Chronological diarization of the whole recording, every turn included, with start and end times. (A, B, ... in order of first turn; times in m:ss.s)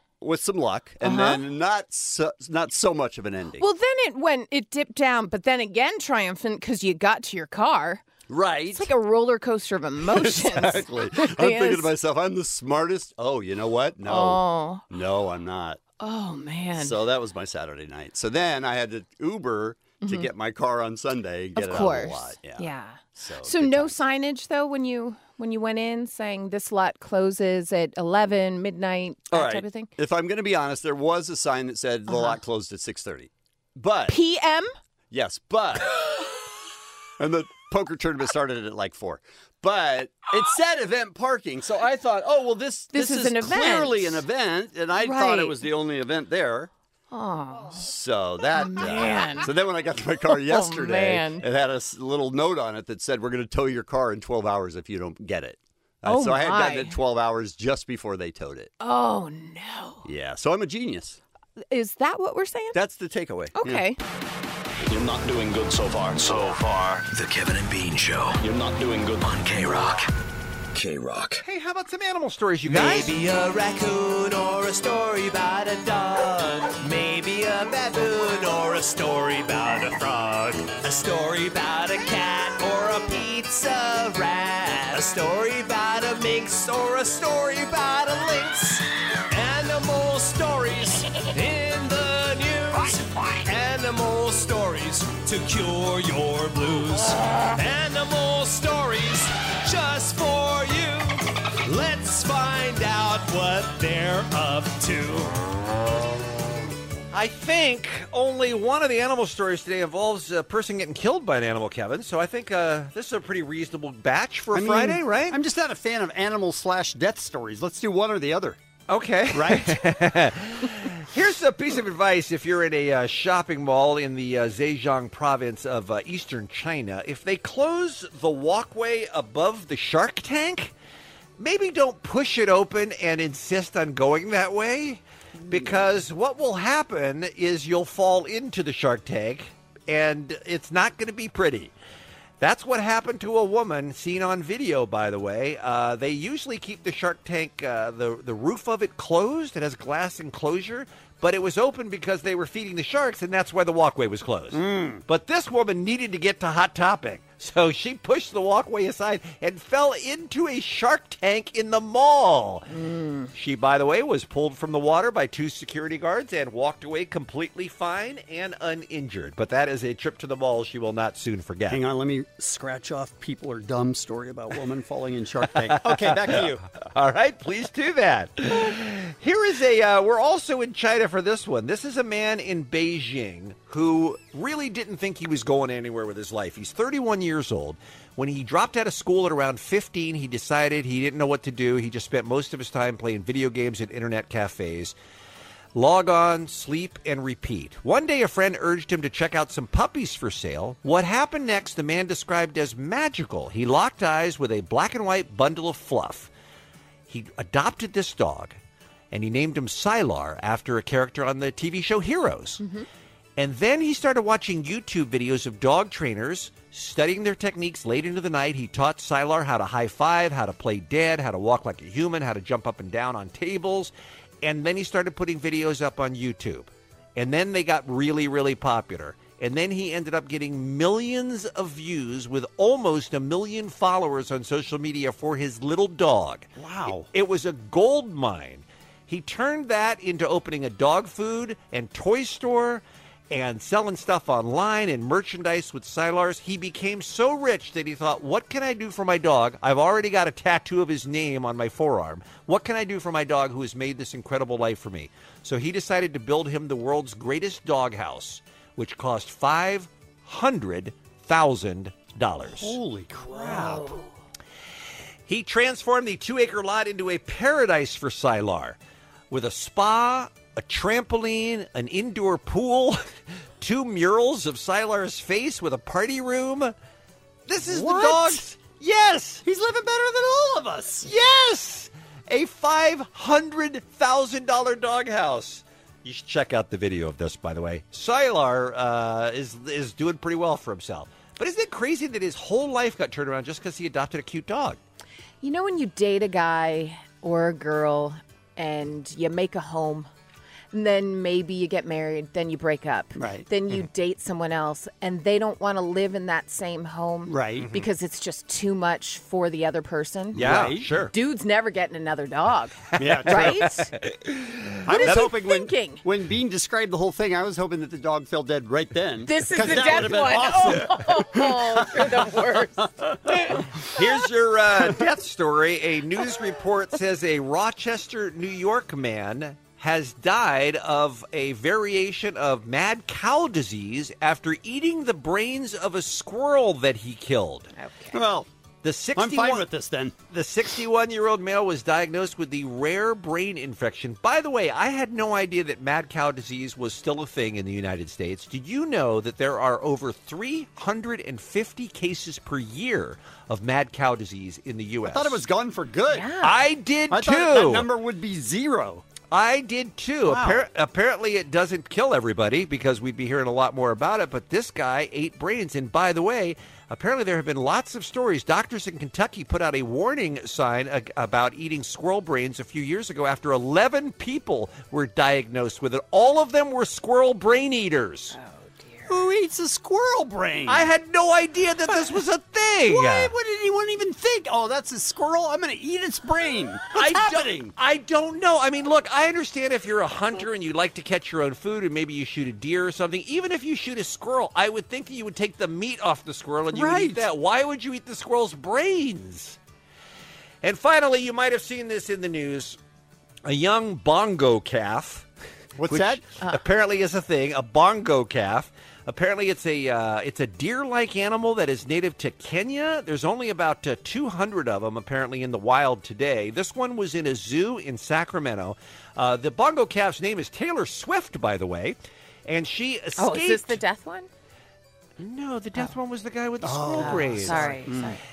0:00.2-0:03.6 A
0:01.0-0:01.4 B
0:03.6-0:08.0 B
0:08.3-0:08.9 A
0:08.7-0:11.9 B
0:10.0-0:15.8 A
0:14.0-0:14.8 B
0:16.0-0:17.0 B
0:16.8-0:24.0 A
0:20.0-0:20.3 B
0:21.6-0:29.9 B
0:29.3-0:34.2 A
0:32.1-0:32.4 B
0:34.1-0:34.7 B
0:35.1-0:35.9 A
0:37.2-0:46.7 A
0:42.9-0:44.2 B
0:45.0-0:45.6 B
0:47.1-0:47.8 B
0:47.7-0:58.7 A
0:48.5-0:49.5 B
0:50.3-0:51.4 B
0:56.0-0:57.0 B
0:58.8-1:00.0 B
1:00.0-1:01.2 A
1:01.7-1:02.8 B
1:02.7-1:03.8 A
1:03.6-1:04.0 B
1:04.9-1:10.1 C
1:10.7-1:11.4 C
1:11.4-1:13.1 D
1:12.7-1:45.3 E
1:47.1-1:55.4 D
1:54.5-1:58.6 A
1:58.9-2:10.7 D
1:59.3-1:59.8 A
2:11.4-2:21.7 D
2:22.4-2:42.7 D
2:34.5-2:35.0 A
2:42.7-2:43.3 B
2:43.3-2:51.8 D
2:51.7-2:56.6 A
2:55.7-3:14.9 D
3:15.7-3:26.3 D
3:27.1-3:28.6 D
3:29.1-3:32.6 D
3:32.6-3:32.8 B
3:33.4-3:56.5 D
3:56.6-3:57.1 A
3:57.1-4:22.8 D
4:22.4-4:23.9 A
4:25.2-4:28.8 D
4:29.3-4:33.0 D
4:33.6-4:36.7 D
4:37.5-4:39.4 D
4:37.6-4:38.4 A
4:39.4-4:41.1 A
4:41.0-4:54.8 D
4:55.4-5:00.1 B
5:00.7-5:10.4 B
5:03.2-5:03.5 A
5:07.3-5:07.7 A
5:10.3-5:10.9 A
5:10.3-5:11.1 D
5:11.1-5:13.9 B
5:13.0-5:13.6 A
5:13.0-5:13.5 D
5:14.8-5:22.9 A
5:14.9-5:16.0 B
5:19.2-5:22.8 B
5:19.9-5:20.3 D
5:23.9-5:37.7 D
5:37.7-5:38.2 B
5:38.1-5:38.5 A
5:38.8-5:39.7 D
5:39.2-5:40.2 A
5:40.2-5:55.4 D
5:55.0-5:56.3 A
5:56.1-5:56.6 B
5:56.4-5:57.9 D
5:57.1-5:59.0 A
5:59.3-6:18.4 D
6:00.2-6:00.6 A
6:18.3-6:19.2 B
6:19.1-6:20.9 A
6:20.7-6:23.3 D
6:22.9-6:27.7 A
6:26.9-6:39.6 D
6:36.7-6:37.3 A
6:40.6-6:42.8 D
6:43.4-6:45.3 D
6:45.8-6:46.2 A
6:45.8-7:03.8 D
7:03.2-7:04.3 B
7:05.2-7:08.0 D
7:06.6-7:08.2 A
7:07.0-7:08.2 B